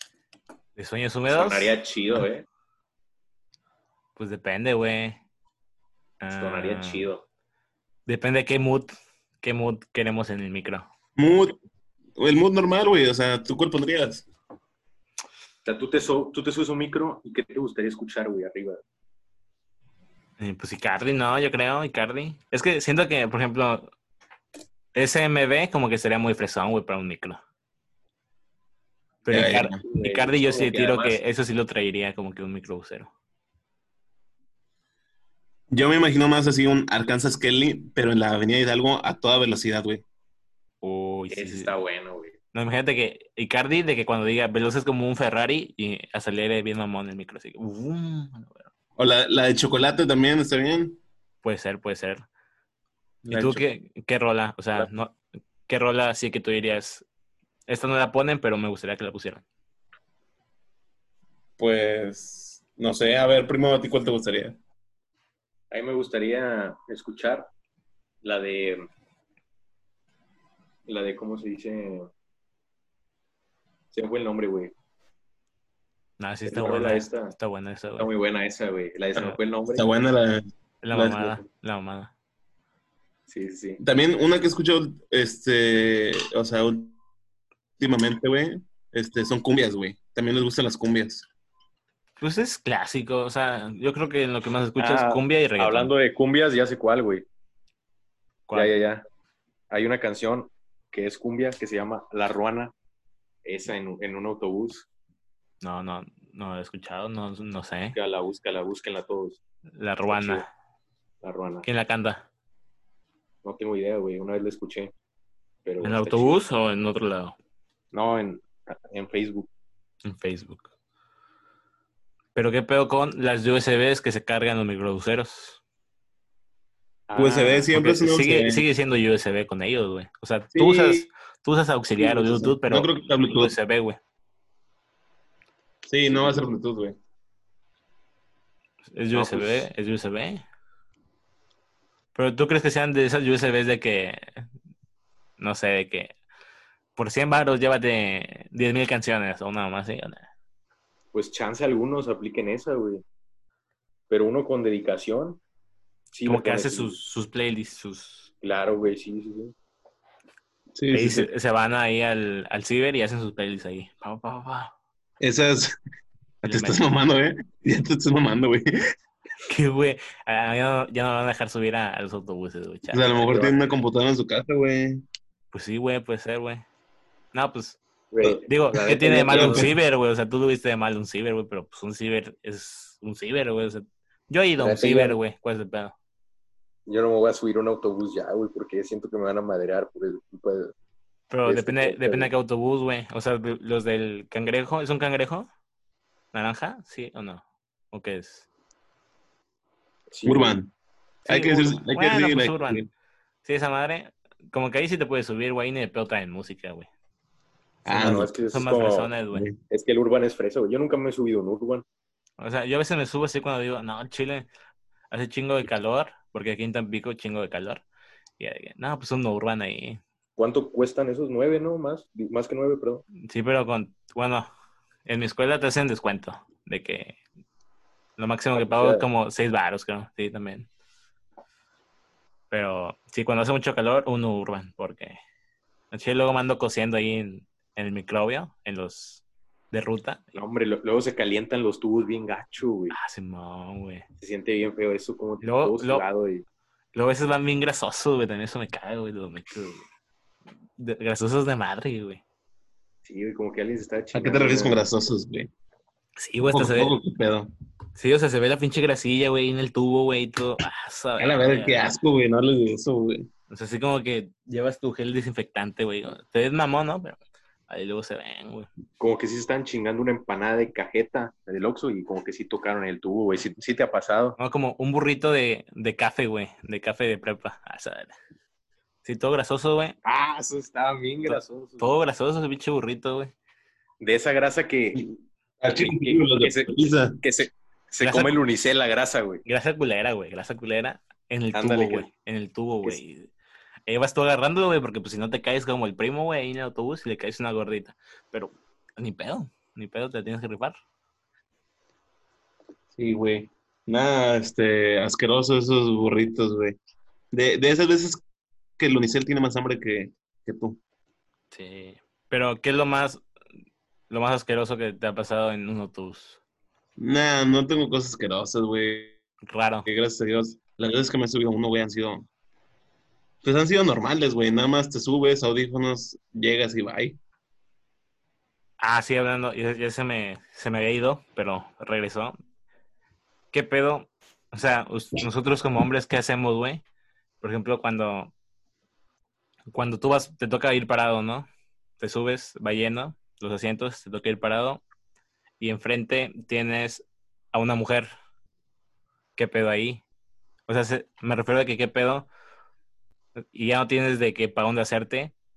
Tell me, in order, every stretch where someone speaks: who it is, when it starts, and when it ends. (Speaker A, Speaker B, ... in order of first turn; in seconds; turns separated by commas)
Speaker A: 0.8-1.7, Speaker B: 1.3-2.5, Speaker A: 4.2-5.2, Speaker A: 6.2-7.1, Speaker B: 6.4-7.2, Speaker A: 8.1-10.9, Speaker C: 11.2-11.6, Speaker C: 12.2-14.3, Speaker B: 15.7-18.8, Speaker A: 20.4-23.9, Speaker A: 24.9-27.4, Speaker A: 29.2-33.1, Speaker C: 29.3-29.8, Speaker B: 29.8-31.2, Speaker C: 35.7-40.0, Speaker A: 40.8-41.7, Speaker B: 41.3-42.3, Speaker A: 42.5-48.7, Speaker C: 49.0-51.0, Speaker A: 51.4-52.2, Speaker C: 53.2-53.6, Speaker A: 53.3-57.0, Speaker A: 57.7-59.4, Speaker C: 61.6-64.6, Speaker B: 65.7-67.5, Speaker B: 68.2-68.9, Speaker B: 70.9-72.1, Speaker B: 73.9-74.7, Speaker A: 76.2-78.1, Speaker B: 76.5-77.3, Speaker B: 78.0-79.9, Speaker C: 79.7-81.4, Speaker A: 80.8-82.1, Speaker B: 83.3-83.8, Speaker C: 83.8-87.0, Speaker C: 87.8-91.3, Speaker A: 92.2-95.9, Speaker B: 94.8-97.2, Speaker A: 98.5-98.7, Speaker B: 98.5-99.0, Speaker B: 99.7-102.7, Speaker B: 103.5-104.9, Speaker A: 105.6-108.0, Speaker B: 108.0-109.4, Speaker A: 109.8-110.5, Speaker B: 110.1-110.5, Speaker B: 111.2-111.7, Speaker A: 111.6-112.2, Speaker B: 113.4-114.9, Speaker B: 115.7-116.4, Speaker A: 115.8-117.4, Speaker B: 117.9-119.5, Speaker A: 120.0-120.7, Speaker A: 122.3-125.6, Speaker B: 127.1-127.7, Speaker C: 127.2-128.6, Speaker A: 127.7-134.0, Speaker C: 130.5-131.1, Speaker C: 132.0-133.6, Speaker C: 135.9-137.0, Speaker B: 136.1-136.4, Speaker A: 138.9-140.4, Speaker B: 139.1-139.7, Speaker A: 142.2-144.4, Speaker A: 145.4-146.2, Speaker A: 147.0-150.3, Speaker B: 151.1-153.0, Speaker B: 154.1-155.4, Speaker B: 156.1-157.0, Speaker A: 156.2-158.3, Speaker B: 158.4-159.5, Speaker C: 160.8-161.3, Speaker A: 160.9-164.7, Speaker C: 165.2-165.8, Speaker A: 166.4-166.8, Speaker C: 166.4-168.7, Speaker A: 169.5-173.6, Speaker C: 172.9-175.1, Speaker A: 175.5-176.6, Speaker A: 177.3-177.8, Speaker B: 178.1-179.7, Speaker A: 178.4-185.9, Speaker C: 179.3-179.7, Speaker B: 184.6-185.2, Speaker B: 186.9-190.7, Speaker A: 191.3-195.5, Speaker B: 191.5-192.3, Speaker A: 196.3-198.5, Speaker B: 200.1-200.6, Speaker C: 200.2-200.7, Speaker A: 201.3-202.8, Speaker C: 201.3-202.9, Speaker A: 203.4-206.9, Speaker C: 207.9-208.3, Speaker B: 207.9-209.1, Speaker A: 208.0-209.5, Speaker B: 209.7-211.8, Speaker A: 212.4-214.5, Speaker A: 215.1-217.8, Speaker A: 218.4-220.0, Speaker B: 220.4-223.1, Speaker A: 223.2-224.5, Speaker A: 225.1-227.2, Speaker A: 228.2-230.7, Speaker B: 228.6-229.1, Speaker A: 232.5-235.2, Speaker A: 235.9-240.4, Speaker B: 240.4-243.0, Speaker A: 242.9-244.1, Speaker B: 244.2-246.4, Speaker A: 245.4-246.1, Speaker A: 246.9-249.8, Speaker A: 250.8-252.2, Speaker B: 253.1-254.9, Speaker C: 254.1-255.5, Speaker A: 256.2-257.0, Speaker C: 256.5-257.5, Speaker A: 258.0-262.0, Speaker C: 261.2-263.3, Speaker A: 263.5-268.7, Speaker B: 269.0-274.4, Speaker A: 274.4-278.1, Speaker A: 279.0-280.0, Speaker B: 280.0-281.9, Speaker A: 281.2-283.3, Speaker B: 284.0-285.1, Speaker C: 285.6-287.2, Speaker B: 285.7-289.4, Speaker A: 288.0-288.4, Speaker A: 289.4-293.3, Speaker B: 291.5-292.1, Speaker A: 293.9-300.8, Speaker C: 303.0-306.8, Speaker C: 307.3-308.2, Speaker C: 308.8-310.8, Speaker A: 311.5-313.2, Speaker A: 314.1-316.4, Speaker C: 317.0-319.2, Speaker A: 319.4-319.9, Speaker C: 319.9-322.3, Speaker C: 323.4-327.2, Speaker A: 328.8-332.4, Speaker A: 333.5-336.8, Speaker A: 337.4-338.3, Speaker A: 339.7-341.5, Speaker A: 342.0-344.8, Speaker A: 345.6-348.1, Speaker A: 349.4-350.0, Speaker A: 350.7-352.3, Speaker A: 353.5-355.3